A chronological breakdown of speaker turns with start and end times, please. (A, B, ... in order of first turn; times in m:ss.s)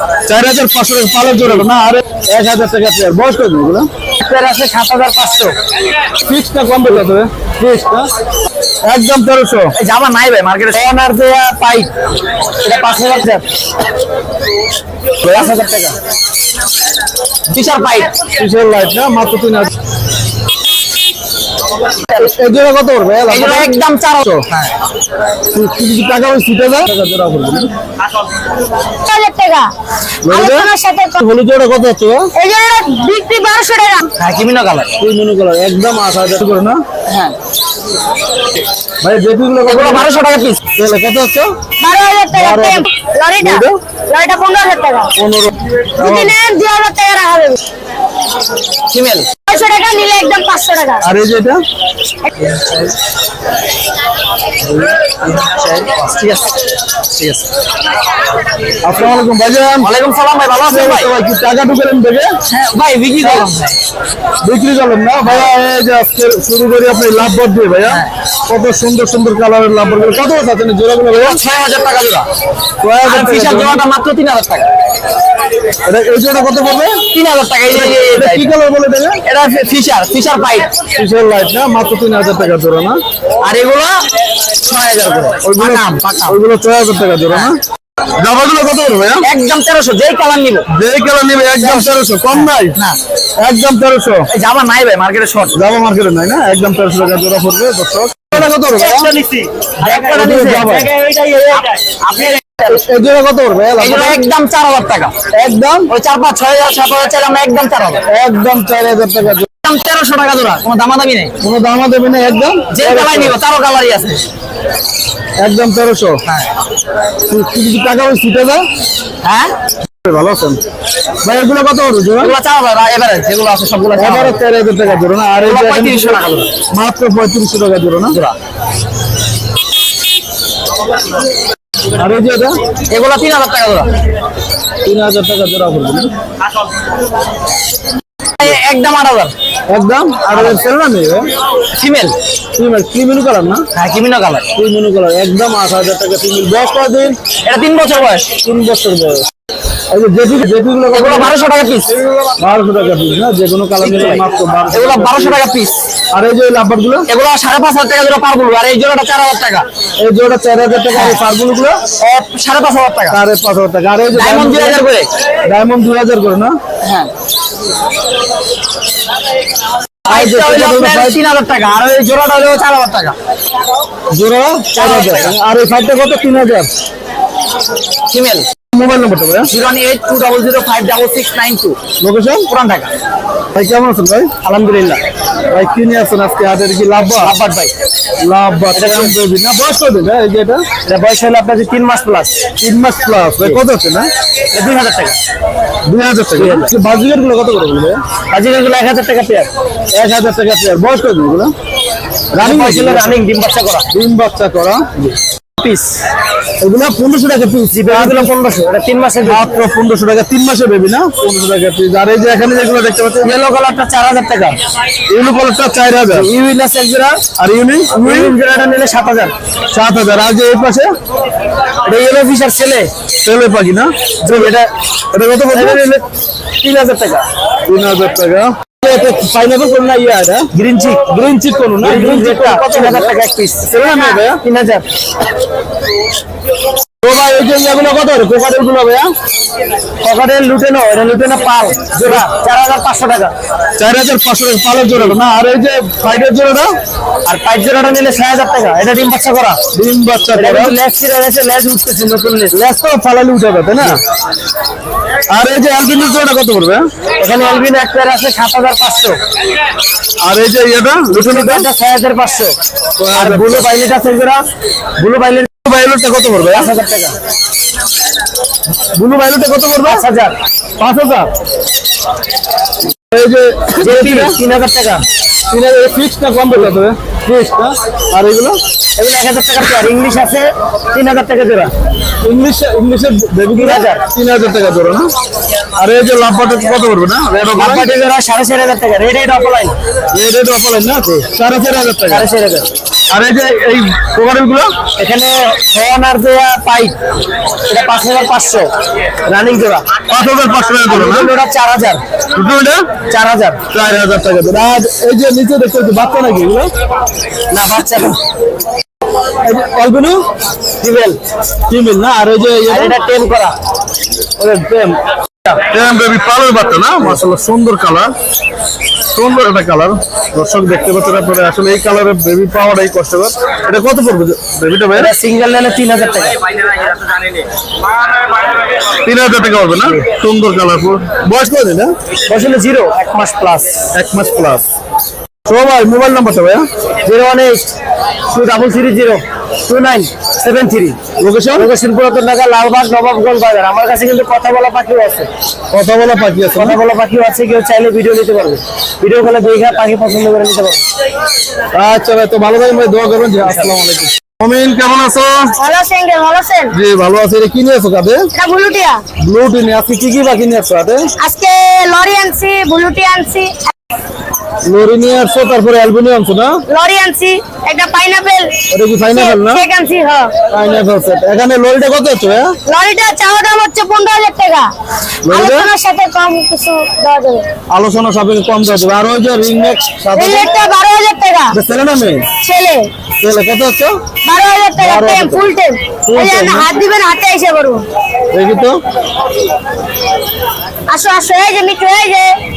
0:00.2-0:03.9 A
0:04.2-0:05.5 B
0:06.2-0:08.1 A
0:08.8-0:09.7 A
0:09.7-0:11.9 B
0:12.6-0:13.4 B
0:15.2-0:16.0 B
0:17.5-0:18.1 B
0:18.3-0:19.7 A
0:22.1-0:22.4 B
0:22.1-0:24.4 A
0:23.3-0:24.7 B
0:25.5-0:27.7 A
0:28.9-0:29.7 C
0:30.2-0:32.3 A
0:30.2-0:31.2 C
0:32.3-0:34.1 C
0:34.2-0:34.9 B
0:35.0-0:36.8 A
0:37.1-0:37.3 B
0:39.0-0:40.1 A
0:39.6-0:40.6 B
0:40.8-0:41.5 A
0:41.8-0:45.1 C
0:42.3-0:42.9 A
0:43.4-0:43.8 A
0:45.2-0:46.4 A
0:46.0-0:47.6 C
0:48.9-0:49.3 B
0:49.4-0:51.0 C
0:51.0-0:51.6 A
0:54.8-0:56.6 B
0:57.1-0:57.5 B
0:58.8-0:59.9 A
0:59.8-1:01.1 B
1:00.6-1:02.3 A
1:02.5-1:03.8 B
1:03.2-1:03.5 A
1:04.4-1:11.4 A
1:05.2-1:05.5 B
1:11.1-1:12.3 B
1:12.8-1:13.8 A
1:13.0-1:14.7 B
1:15.8-1:17.0 A
1:17.1-1:18.5 B
1:17.7-1:19.2 A
1:19.2-1:20.7 B
1:20.9-1:23.0 A
1:23.4-1:24.0 B
1:24.6-1:26.4 B
1:25.4-1:27.6 A
1:28.2-1:29.3 A
1:29.2-1:30.6 B
1:30.7-1:32.7 A
1:31.6-1:33.0 B
1:33.4-1:34.2 A
1:34.3-1:35.6 B
1:35.5-1:39.1 A
1:38.3-1:42.8 B
1:39.8-1:40.9 A
1:42.7-1:44.2 A
1:43.8-1:45.2 B
1:45.3-1:45.9 A
1:45.9-1:48.0 B
1:48.1-1:49.4 A
1:49.6-1:51.3 B
1:51.4-1:53.4 A
1:52.7-1:54.2 B
1:55.4-1:56.2 A
1:57.2-1:58.6 A
1:59.2-1:59.5 B
2:00.0-2:00.6 A
2:01.2-2:02.4 A
2:02.2-2:04.4 B
2:04.0-2:08.2 A
2:05.4-2:06.5 B
2:11.9-2:12.6 A
2:12.9-2:13.9 B
2:14.8-2:16.1 A
2:18.4-2:19.3 B
2:19.7-2:21.3 A
2:20.3-2:20.6 B
2:21.7-2:22.2 B
2:22.6-2:23.6 A
2:23.7-2:24.5 B
2:24.5-2:27.2 A
2:27.4-2:28.3 B
2:28.4-2:29.2 A
2:29.9-2:31.3 A
2:30.9-2:31.9 B
2:32.0-2:35.4 A
2:33.8-2:35.8 B
2:36.1-2:37.0 A
2:37.1-2:39.6 B
2:40.0-2:41.8 A
2:40.9-2:41.2 B
2:42.0-2:43.2 B
2:43.1-2:44.8 A
2:44.1-2:45.1 B
2:45.4-2:46.6 A
2:46.8-2:47.1 B
2:50.0-2:53.2 B
2:50.1-2:51.2 A
2:54.1-2:56.7 A
2:54.7-2:55.3 B
2:58.1-2:58.5 B
2:58.7-2:59.5 A
2:59.4-3:01.8 B
3:02.0-3:02.5 A
3:02.5-3:02.9 B
3:03.5-3:04.3 A
3:04.4-3:05.0 B
3:05.5-3:07.3 A
3:07.2-3:07.7 B
3:08.2-3:10.6 A
3:08.7-3:09.2 B
3:10.8-3:12.4 B
3:12.6-3:14.1 A
3:14.5-3:15.2 B
3:15.8-3:18.0 A
3:16.4-3:16.7 B
3:18.3-3:19.5 B
3:19.9-3:21.5 A
3:22.3-3:23.2 A
3:22.4-3:23.9 B
3:23.9-3:25.1 A
3:25.6-3:26.0 B
3:26.6-3:28.3 A
3:27.7-3:29.5 B
3:29.2-3:33.3 A
3:33.2-3:34.6 B
3:35.1-3:36.3 A
3:36.1-3:37.2 B
3:37.4-3:38.3 A
3:37.9-3:39.3 B
3:39.7-3:40.9 A
3:41.8-3:42.9 B
3:43.2-3:44.5 A
3:44.2-3:44.7 B
3:45.1-3:45.8 A
3:45.5-3:46.0 B
3:46.6-3:47.2 B
3:47.6-3:50.5 A
3:50.5-3:51.1 B
3:51.0-3:54.4 A
3:51.8-3:54.8 B
3:57.0-3:59.1 A
4:00.0-4:03.3 B
4:02.0-4:02.3 A
4:03.8-4:06.7 A
4:07.2-4:09.6 B
4:09.7-4:10.8 A
4:10.3-4:12.6 B
4:12.5-4:14.0 A
4:15.3-4:16.8 A
4:17.2-4:19.2 B
4:20.2-4:21.7 A
4:21.1-4:22.6 B
4:23.0-4:23.7 A
4:23.1-4:25.5 B
4:25.6-4:26.7 A
4:26.5-4:27.2 B
4:28.9-4:30.0 A
4:29.8-4:30.4 B
4:30.8-4:31.3 A
4:33.1-4:34.4 A
4:33.8-4:35.0 B
4:35.5-4:38.6 A
4:39.0-4:41.7 B
4:42.2-4:45.1 A
4:43.5-4:44.0 B
4:45.8-4:47.9 A
4:47.5-4:49.8 B
4:50.1-4:52.3 A
4:52.1-4:52.7 B
4:53.1-4:54.7 A
4:55.0-4:57.0 B
4:57.7-4:58.7 B
4:59.2-5:00.0 B
5:00.1-5:01.3 A
5:00.8-5:02.0 B
5:02.3-5:02.9 A
5:03.1-5:03.6 B
5:03.7-5:06.7 A
5:07.5-5:08.2 B
5:09.4-5:10.2 A
5:10.8-5:11.2 B
5:11.7-5:13.0 A
5:12.7-5:13.5 B
5:14.4-5:15.0 A
5:15.7-5:18.1 A
5:19.1-5:25.1 A
5:24.9-5:26.9 B
5:29.0-5:31.9 A
5:32.3-5:33.8 B
5:33.9-5:34.6 A
5:35.5-5:36.6 A
5:37.0-5:37.7 B
5:38.3-5:41.0 B
5:41.2-5:41.7 A
5:41.5-5:45.3 B
5:45.7-5:46.8 A
5:46.5-5:50.8 B
5:51.7-5:55.5 A
5:53.4-5:53.7 B
5:55.5-5:56.7 C
5:56.7-5:58.3 A
5:58.3-5:59.0 C
5:59.2-6:01.1 A
6:01.2-6:03.6 C
6:04.6-6:06.6 A
6:06.7-6:08.5 C
6:08.7-6:09.6 A
6:09.1-6:10.3 C
6:10.5-6:12.5 A
6:12.6-6:14.7 C
6:15.2-6:15.7 A
6:15.2-6:17.4 C
6:17.7-6:20.5 A
6:20.1-6:21.6 C
6:21.5-6:22.3 A
6:22.4-6:22.9 C
6:23.2-6:24.0 A
6:24.2-6:27.8 C
6:24.8-6:25.5 A
6:26.1-6:26.7 A
6:28.3-6:28.8 A
6:30.9-6:32.4 C